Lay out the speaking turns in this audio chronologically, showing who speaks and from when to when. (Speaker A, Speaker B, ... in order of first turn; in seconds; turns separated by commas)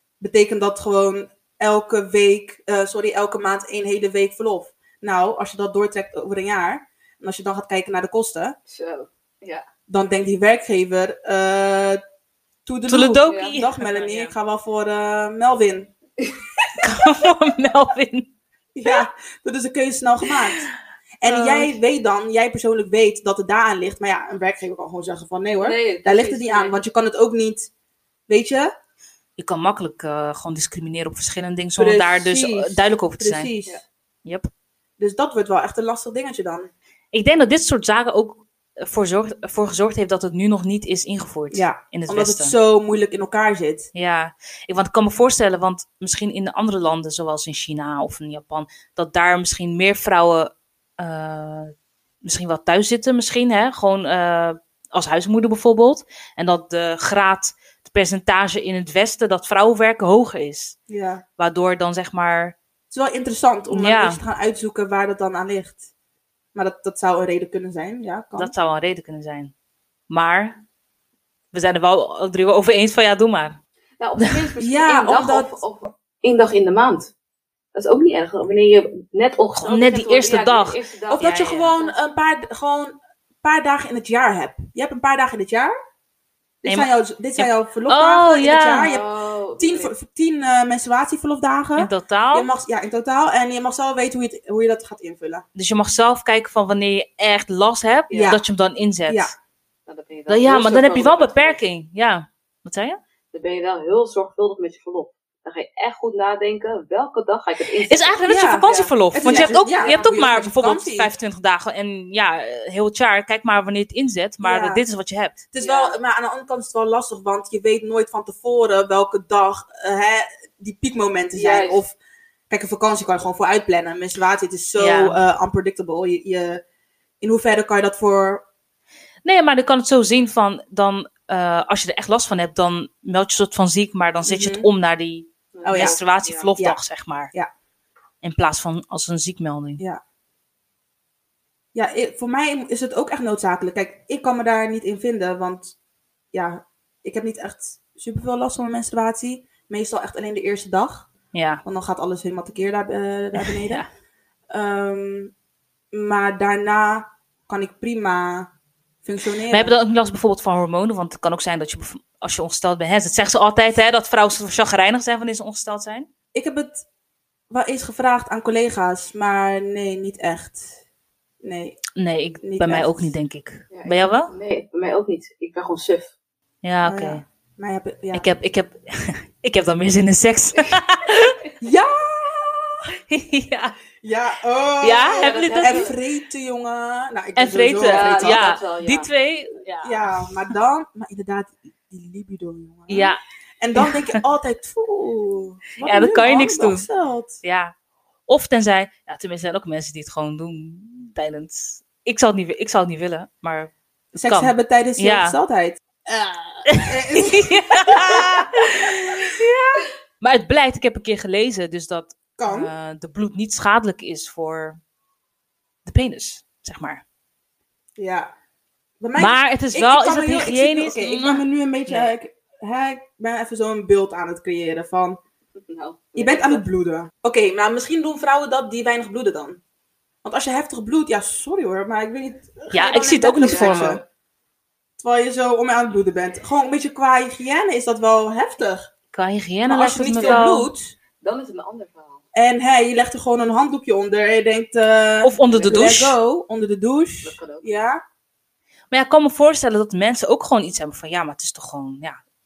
Speaker A: 0.2-8.6, Speaker B: 8.7-9.7, Speaker A: 9.9-12.0, Speaker A: 12.7-15.9, Speaker C: 12.9-14.3, Speaker B: 13.3-13.5, Speaker B: 16.2-16.8, Speaker C: 16.8-18.3, Speaker A: 18.8-20.7, Speaker A: 21.2-27.7, Speaker C: 21.2-21.8, Speaker B: 25.6-26.8, Speaker A: 28.3-28.7, Speaker C: 29.4-33.5, Speaker A: 31.8-33.8, Speaker A: 35.0-36.7, Speaker C: 37.1-42.5, Speaker A: 41.5-43.9, Speaker C: 44.0-51.7, Speaker C: 52.2-60.8, Speaker A: 60.9-61.2, Speaker C: 61.4-62.6, Speaker A: 62.9-65.9, Speaker C: 63.7-64.2, Speaker A: 66.5-68.5, Speaker C: 68.4-69.5, Speaker C: 70.1-70.6, Speaker C: 71.5-73.6, Speaker B: 74.0-77.1, Speaker A: 74.6-75.6, Speaker B: 77.8-82.0, Speaker C: 79.6-81.7, Speaker A: 81.1-85.7, Speaker A: 86.6-89.0, Speaker C: 86.7-88.9, Speaker B: 88.8-89.9, Speaker A: 89.6-95.5, Speaker C: 91.8-92.5, Speaker C: 95.6-99.3, Speaker A: 98.1-98.4, Speaker A: 99.1-99.3, Speaker B: 99.9-101.6, Speaker C: 100.3-103.0, Speaker B: 103.3-110.1, Speaker C: 107.9-115.4, Speaker A: 108.3-111.1, Speaker A: 114.4-114.8, Speaker A: 115.5-122.0, Speaker B: 115.6-116.0, Speaker B: 121.3-121.8, Speaker A: 122.5-126.6, Speaker C: 124.8-125.2, Speaker A: 127.2-128.4, Speaker C: 129.2-137.3, Speaker A: 134.3-134.7, Speaker B: 135.6-136.5, Speaker A: 135.7-136.0, Speaker C: 138.2-139.8, Speaker A: 141.8-145.8, Speaker A: 146.3-151.1, Speaker C: 151.3-151.6, Speaker A: 151.6-153.8, Speaker C: 153.4-153.9, Speaker A: 154.5-155.3, Speaker A: 155.9-158.5, Speaker A: 159.0-159.7, Speaker C: 159.5-166.1, Speaker A: 166.3-166.8, Speaker A: 167.5-170.7, Speaker A: 171.4-171.8, Speaker C: 172.0-174.3, Speaker A: 172.4-173.1, Speaker B: 173.7-176.1, Speaker C: 176.6-177.2, Speaker A: 176.8-178.3, Speaker C: 178.1-181.4, Speaker A: 181.6-182.8, Speaker C: 183.1-183.8, Speaker A: 184.0-188.5, Speaker C: 184.8-185.9, Speaker B: 185.2-185.9, Speaker C: 187.4-190.5, Speaker B: 187.9-189.1, Speaker A: 189.8-197.4, Speaker C: 192.9-193.2, Speaker C: 193.8-194.2, Speaker C: 195.8-196.9, Speaker C: 197.4-197.7, Speaker C: 198.3-203.7, Speaker A: 204.2-209.5, Speaker C: 204.2-205.4, Speaker C: 206.7-209.5, Speaker C: 210.2-214.8, Speaker A: 212.4-212.7, Speaker C: 215.9-217.0, Speaker A: 218.0-218.3, Speaker A: 219.0-225.2, Speaker C: 219.2-222.1, Speaker B: 225.6-226.6, Speaker A: 226.2-229.6, Speaker A: 230.2-234.0, Speaker C: 232.7-234.0, Speaker B: 233.4-234.0, Speaker A: 235.0-238.9, Speaker C: 239.1-240.7, Speaker A: 239.7-240.9, Speaker B: 240.2-240.5, Speaker B: 241.2-242.2, Speaker A: 242.3-248.0, Speaker C: 245.2-246.2, Speaker B: 245.4-245.8, Speaker B: 247.2-247.8, Speaker C: 248.9-252.2